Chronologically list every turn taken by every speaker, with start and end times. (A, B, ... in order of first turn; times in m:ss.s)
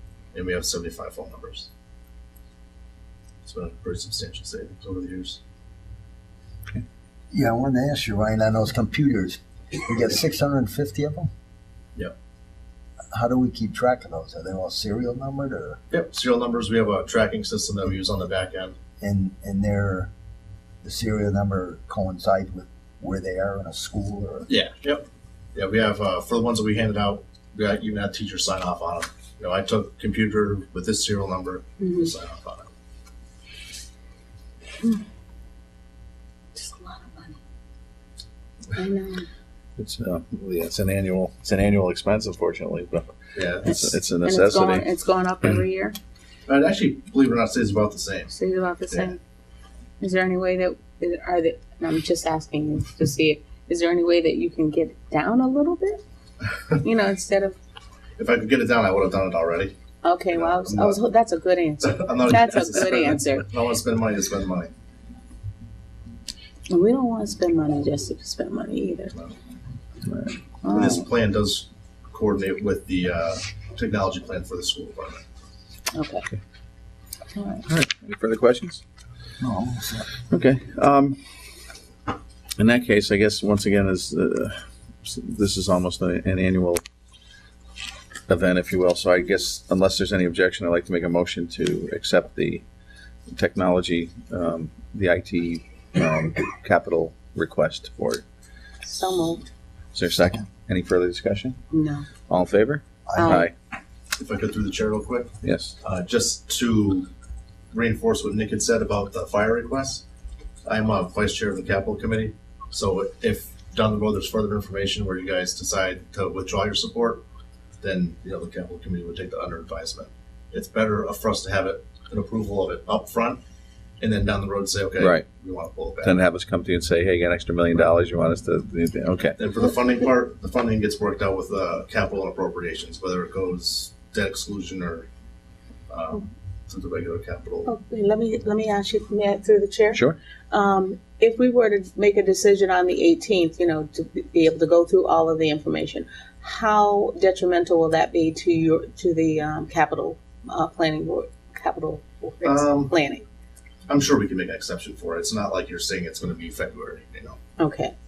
0:00.3-0:01.7 A
0:03.4-0:05.4 A
0:07.3-0:11.3 B
0:13.1-0:15.8 B
0:15.9-0:18.8 A
0:19.0-0:20.1 B
0:20.8-0:24.5 B
0:24.5-0:32.7 A
0:31.8-0:32.1 C
0:36.6-0:37.4 C
0:38.7-0:39.3 C
0:39.8-0:44.9 D
0:43.3-0:43.8 A
0:43.6-0:46.0 C
0:46.5-0:48.3 A
0:48.3-0:49.2 C
0:48.9-0:49.2 A
0:50.0-0:56.0 C
0:56.8-0:57.6 C
0:58.2-0:59.7 A
1:00.0-1:03.4 C
1:00.3-1:01.0 A
1:01.8-1:04.7 A
1:06.7-1:09.1 C
1:10.1-1:10.4 D
1:10.6-1:11.0 C
1:10.7-1:15.2 A
1:15.9-1:16.3 C
1:17.4-1:17.6 C
1:17.7-1:18.8 D
1:19.4-1:20.1 B
1:20.3-1:21.2 D
1:22.6-1:26.8 D
1:28.3-1:32.6 D
1:33.3-1:38.2 D
1:38.8-1:39.4 C
1:40.0-1:41.6 D
1:41.7-1:42.1 C
1:42.3-1:43.5 D
1:43.1-1:43.4 B
1:43.2-1:43.5 C
1:44.2-1:47.1 A
1:45.4-1:45.8 D
1:47.7-1:50.0 A
1:50.6-1:57.2 A
1:57.8-2:03.4 A
2:04.0-2:06.2 A
2:05.0-2:05.3 D
2:06.0-2:09.4 D
2:09.4-2:15.1 A
2:15.9-2:17.7 A
2:17.7-2:33.2 C
2:32.4-2:32.9 A
2:33.9-2:37.4 A
2:37.6-2:37.9 C